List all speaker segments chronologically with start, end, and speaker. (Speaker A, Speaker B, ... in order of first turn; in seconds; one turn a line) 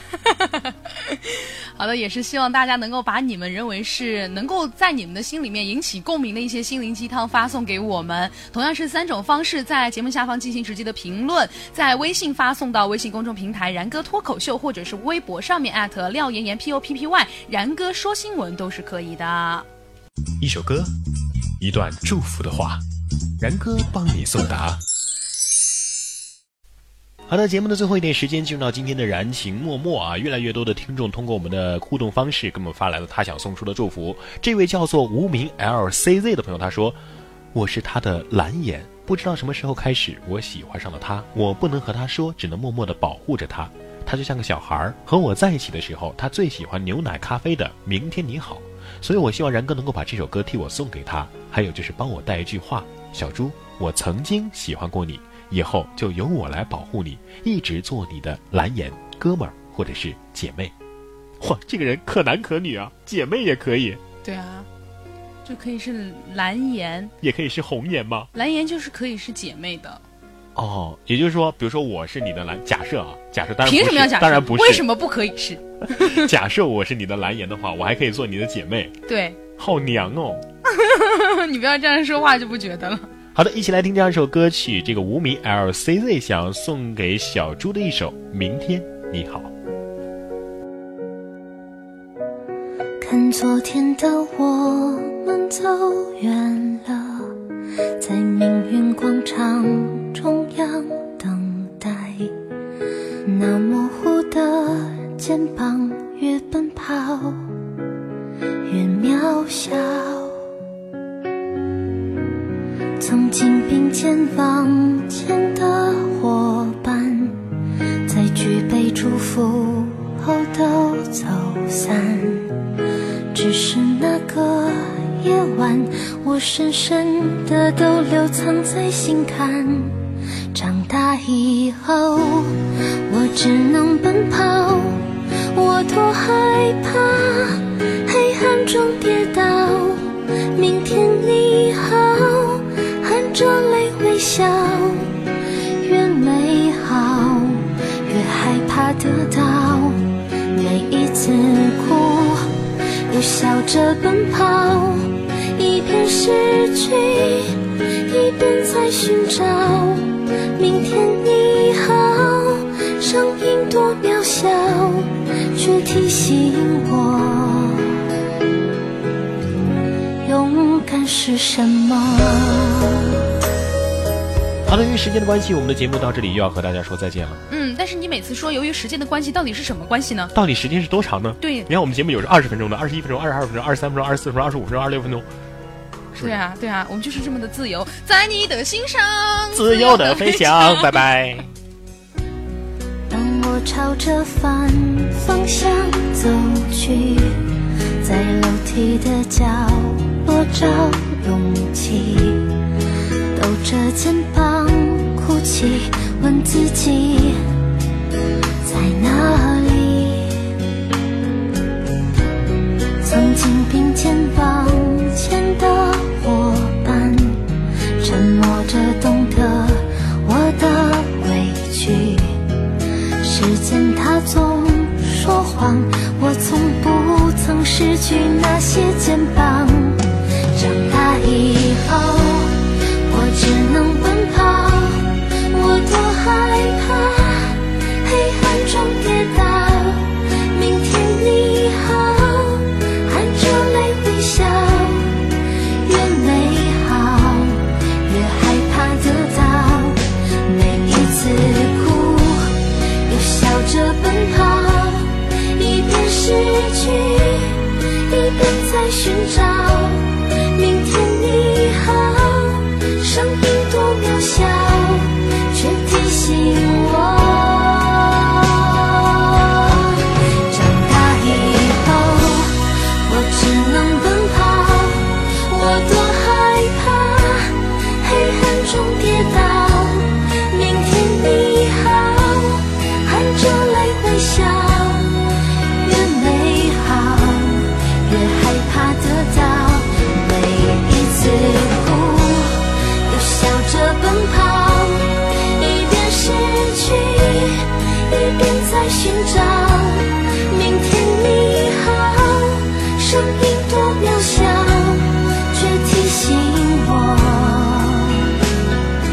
Speaker A: 0.1-19.6
Speaker B: 20.4-20.9
Speaker B: 21.6-22.8
Speaker B: 23.4-24.8
Speaker B: 27.3-37.0
Speaker B: 37.5-60.7
Speaker B: 61.4-64.0
Speaker A: 64.2-64.7
Speaker A: 65.4-67.1
Speaker B: 67.2-68.3
Speaker A: 68.3-70.0
Speaker B: 70.5-74.8
Speaker A: 73.6-76.3
Speaker B: 75.9-78.9
Speaker A: 79.0-79.4
Speaker B: 79.6-80.4
Speaker A: 80.7-83.1
Speaker B: 83.3-89.5
Speaker C: 93.0-97.4
Speaker C: 98.0-102.3
Speaker C: 103.2-107.6
Speaker C: 108.7-110.4
Speaker C: 113.0-122.7
Speaker C: 123.3-145.3
Speaker C: 145.8-152.5
Speaker C: 153.1-168.1
Speaker C: 170.2-173.3
Speaker B: 174.7-177.4
Speaker A: 177.5-180.3
Speaker B: 180.3-185.2
Speaker A: 181.4-181.7
Speaker A: 186.2-190.9
Speaker B: 189.5-191.5
Speaker C: 193.1-197.4
Speaker C: 198.0-202.6
Speaker C: 203.3-207.4
Speaker C: 208.6-210.5
Speaker C: 213.0-222.6
Speaker C: 223.2-308.3